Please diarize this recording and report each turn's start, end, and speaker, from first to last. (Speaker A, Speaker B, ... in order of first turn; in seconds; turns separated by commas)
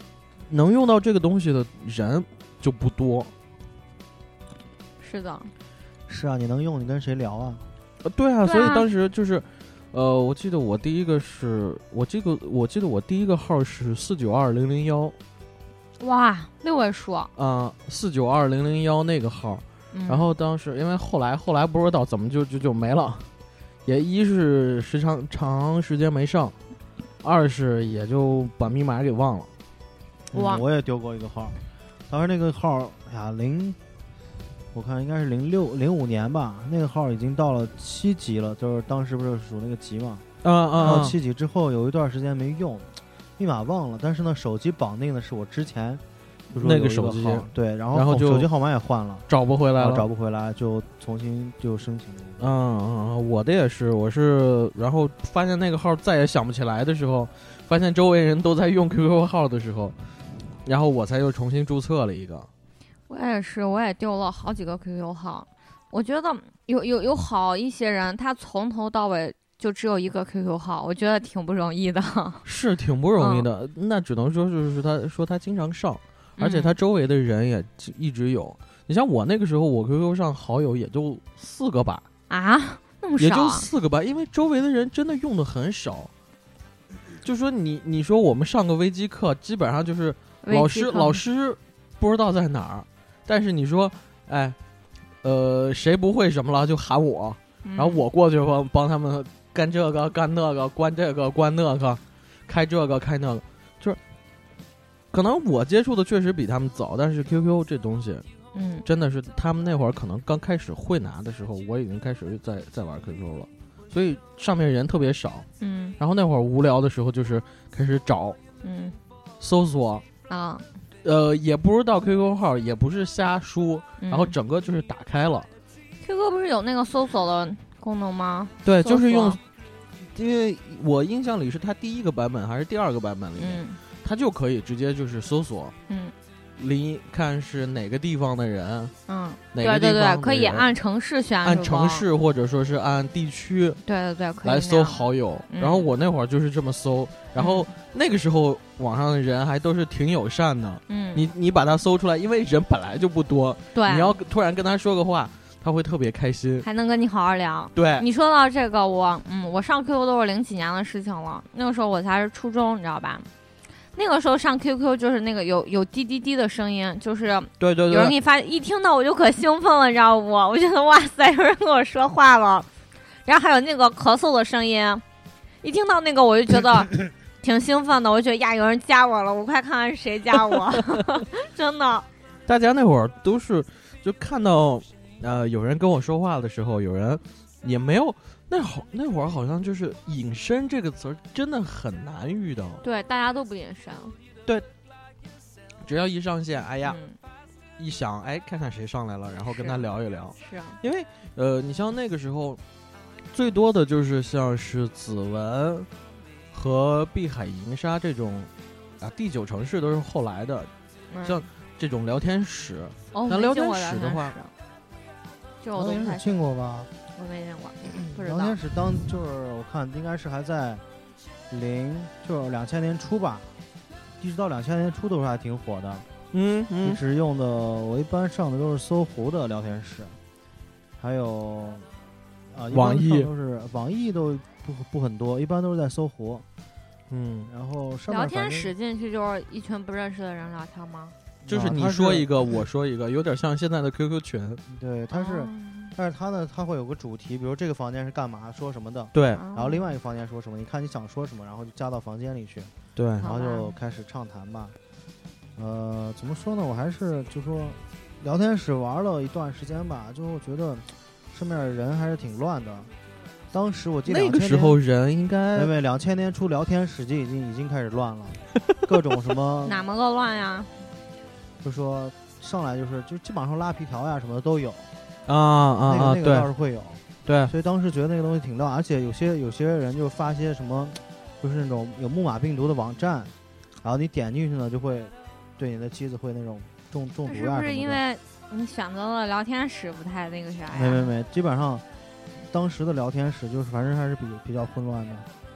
Speaker A: 0.5-3.3, Speaker B: 5.0-5.5, Speaker C: 6.1-7.7, Speaker A: 8.0-15.2, Speaker B: 8.4-8.9, Speaker B: 16.0-17.3, Speaker A: 17.4-23.3, Speaker B: 19.9-20.3, Speaker A: 23.8-26.6, Speaker A: 27.2-29.5, Speaker C: 30.3-31.6, Speaker B: 30.3-30.6, Speaker C: 32.1-33.8, Speaker C: 34.7-40.2, Speaker A: 40.4-41.2, Speaker C: 40.8-52.5, Speaker A: 46.5-48.5, Speaker A: 49.3-50.1, Speaker A: 52.4-60.0, Speaker A: 60.6-62.5, Speaker B: 63.1-72.5, Speaker A: 72.5-82.1, Speaker B: 73.2-73.5, Speaker B: 76.4-76.8, Speaker B: 82.3-83.7, Speaker A: 83.2-86.1, Speaker A: 87.2-94.6, Speaker B: 90.4-91.2, Speaker A: 95.2-104.0, Speaker B: 97.6-98.0, Speaker A: 105.1-108.3, Speaker B: 108.5-108.8, Speaker A: 108.8-115.5, Speaker B: 115.6-116.0, Speaker A: 116.0-118.4, Speaker B: 118.6-119.0, Speaker A: 119.4-120.0, Speaker B: 120.3-120.7, Speaker A: 121.0-125.5, Speaker B: 124.0-124.3, Speaker B: 126.0-129.4, Speaker A: 128.6-129.4, Speaker A: 129.9-135.8, Speaker B: 133.4-133.8, Speaker B: 135.9-136.1, Speaker A: 136.6-138.9, Speaker B: 139.1-142.1, Speaker A: 139.5-140.7, Speaker A: 141.4-143.8, Speaker B: 143.8-145.9, Speaker A: 144.4-156.7, Speaker B: 147.3-147.7, Speaker B: 150.9-151.3, Speaker B: 153.7-154.2, Speaker B: 156.6-163.3, Speaker A: 157.7-158.1, Speaker B: 163.9-172.7, Speaker A: 167.6-168.2, Speaker B: 173.2-175.0, Speaker B: 175.6-182.1, Speaker A: 182.5-192.8, Speaker B: 192.8-194.2, Speaker A: 195.8-197.0, Speaker B: 196.8-197.2, Speaker A: 197.8-202.6, Speaker B: 199.5-199.8, Speaker B: 200.4-200.8, Speaker A: 203.3-205.9, Speaker A: 206.5-210.7, Speaker B: 211.1-211.4, Speaker A: 211.2-214.3, Speaker B: 213.1-214.5, Speaker B: 215.6-216.3, Speaker C: 215.8-216.9, Speaker B: 217.1-218.6, Speaker C: 218.1-220.8, Speaker C: 221.5-223.5, Speaker C: 224.2-226.1, Speaker A: 226.3-227.0, Speaker C: 226.8-230.2, Speaker C: 231.0-231.9, Speaker C: 232.5-236.4, Speaker A: 232.7-233.3, Speaker A: 237.1-237.5, Speaker C: 237.5-238.7, Speaker B: 238.1-241.2, Speaker C: 241.4-242.3, Speaker A: 241.5-244.6, Speaker C: 244.7-254.8, Speaker B: 245.1-245.9, Speaker A: 249.1-249.4, Speaker B: 249.3-249.8, Speaker A: 253.0-253.3, Speaker B: 253.2-253.7, Speaker C: 255.6-262.9, Speaker C: 263.5-264.8, Speaker A: 264.1-265.7, Speaker C: 265.5-269.8, Speaker B: 269.6-270.7, Speaker C: 271.6-274.9, Speaker A: 275.3-276.5, Speaker C: 275.9-288.0, Speaker A: 277.2-277.5, Speaker B: 287.3-291.1, Speaker C: 290.7-291.8, Speaker C: 292.4-295.3